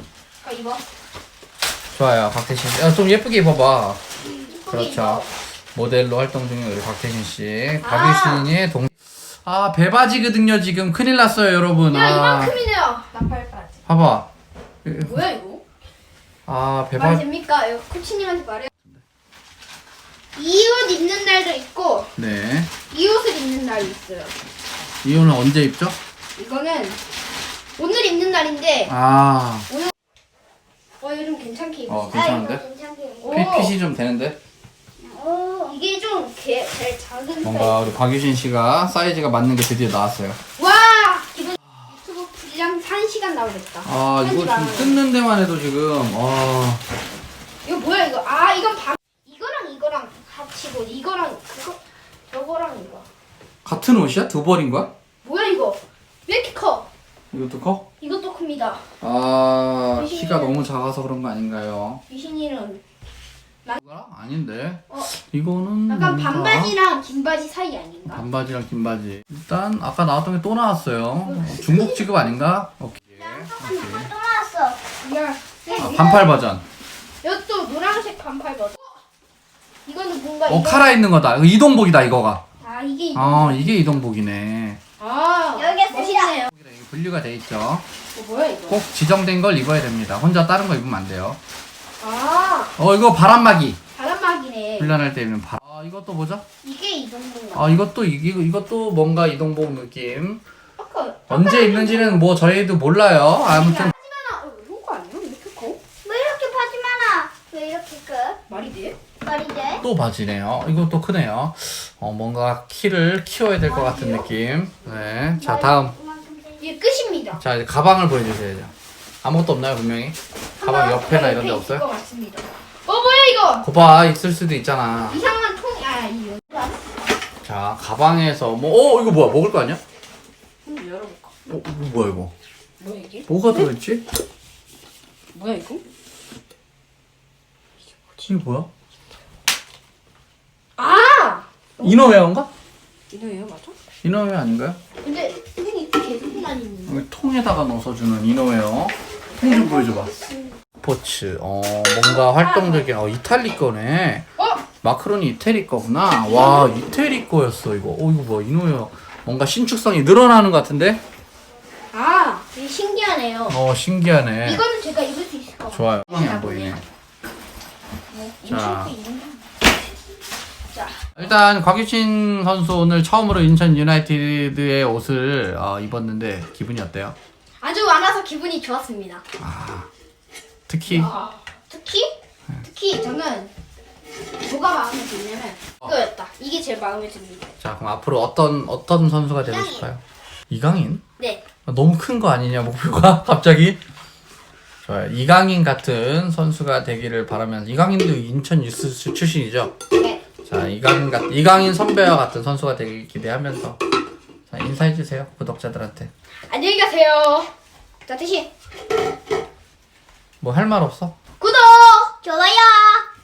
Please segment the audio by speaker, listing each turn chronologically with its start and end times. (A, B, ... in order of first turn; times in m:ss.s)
0:00.4-0:00.8 A
0:01.9-0:04.0 B
0:04.3-0:05.3 A
0:04.7-0:12.6 B
0:07.8-0:08.5 A
0:11.9-0:13.8 A
0:13.8-0:14.3 B
0:14.8-0:15.3 B
0:14.9-0:15.6 A
0:16.4-0:17.2 B
0:17.0-0:18.7 A
0:20.3-0:22.1 A
0:22.2-0:22.7 B
0:22.9-0:24.3 A
0:25.0-0:26.0 B
0:26.4-0:27.0 A
0:27.8-0:28.9 A
0:28.9-0:29.7 B
0:31.0-0:32.2 A
0:31.9-0:32.6 B
0:32.1-0:33.6 C
0:33.2-0:33.7 A
0:33.3-0:34.4 B
0:35.0-0:35.7 C
0:35.6-0:37.8 A
0:37.4-0:40.4 B
0:40.6-0:45.0 A
0:41.7-0:41.9 B
0:43.8-0:46.8 B
0:47.6-0:51.8 A
0:52.3-0:53.0 A
0:53.6-0:54.9 B
0:55.2-0:56.9 A
0:57.3-0:57.8 B
0:58.0-0:58.8 A
0:59.0-1:02.0 B
1:00.0-1:00.6 A
1:02.1-1:02.8 A
1:03.8-1:06.8 B
1:05.9-1:08.2 A
1:08.1-1:14.1 B
1:11.2-1:12.2 A
1:13.2-1:14.8 C
1:15.0-1:16.4 A
1:15.7-1:16.6 B
1:17.2-1:19.0 A
1:19.8-1:20.9 A
1:20.5-1:22.4 B
1:22.6-1:24.0 A
1:23.1-1:24.8 B
1:25.0-1:26.5 A
1:25.6-1:26.3 C
1:26.5-1:27.8 B
1:28.1-1:28.8 A
1:28.7-1:31.4 B
1:32.0-1:32.7 A
1:32.8-1:33.8 B
1:33.9-1:34.9 A
1:34.8-1:36.4 B
1:36.6-1:37.8 A
1:37.5-1:40.4 B
1:40.8-1:42.2 A
1:41.3-1:43.9 B
1:43.5-1:45.8 A
1:46.0-1:48.4 C
1:48.5-1:49.0 A
1:49.2-1:49.8 C
1:49.8-1:55.9 B
1:53.6-1:54.3 C
1:55.3-1:56.6 C
1:56.6-1:57.4 A
1:57.4-2:01.9 B
2:00.6-2:03.7 A
2:03.6-2:05.2 B
2:05.1-2:06.8 A
2:07.4-2:09.8 B
2:10.6-2:11.3 A
2:11.5-2:12.3 B
2:12.8-2:13.6 A
2:13.3-2:14.0 B
2:15.3-2:15.8 A
2:18.2-2:18.7 B
2:20.8-2:22.2 A
2:21.8-2:22.5 B
2:23.1-2:23.8 A
2:24.0-2:24.8 B
2:25.0-2:27.0 A
2:26.9-2:30.1 B
2:29.3-2:30.5 A
2:30.8-2:34.2 B
2:32.0-2:33.0 A
2:34.4-2:34.6 A
2:34.8-2:41.0 B
2:36.2-2:36.7 A
2:41.9-2:43.6 A
2:43.5-2:44.6 B
2:44.4-2:46.8 A
2:45.7-2:46.8 B
2:48.1-2:49.4 A
2:48.4-2:48.9 B
2:50.7-2:51.0 A
2:51.2-2:57.1 B
2:57.6-2:59.2 A
2:59.4-2:59.9 B
3:00.7-3:01.1 B
3:00.8-3:03.5 A
3:04.4-3:07.5 A
3:07.6-3:11.0 B
3:09.4-3:09.8 C
3:11.2-3:11.4 A
3:11.6-3:13.8 B
3:14.8-3:19.7 B
3:19.9-3:20.2 A
3:20.4-3:23.8 B
3:24.5-3:26.1 B
3:26.5-3:27.5 A
3:28.0-3:28.5 A
3:30.4-3:31.1 B
3:31.4-3:32.1 A
3:32.2-3:33.0 C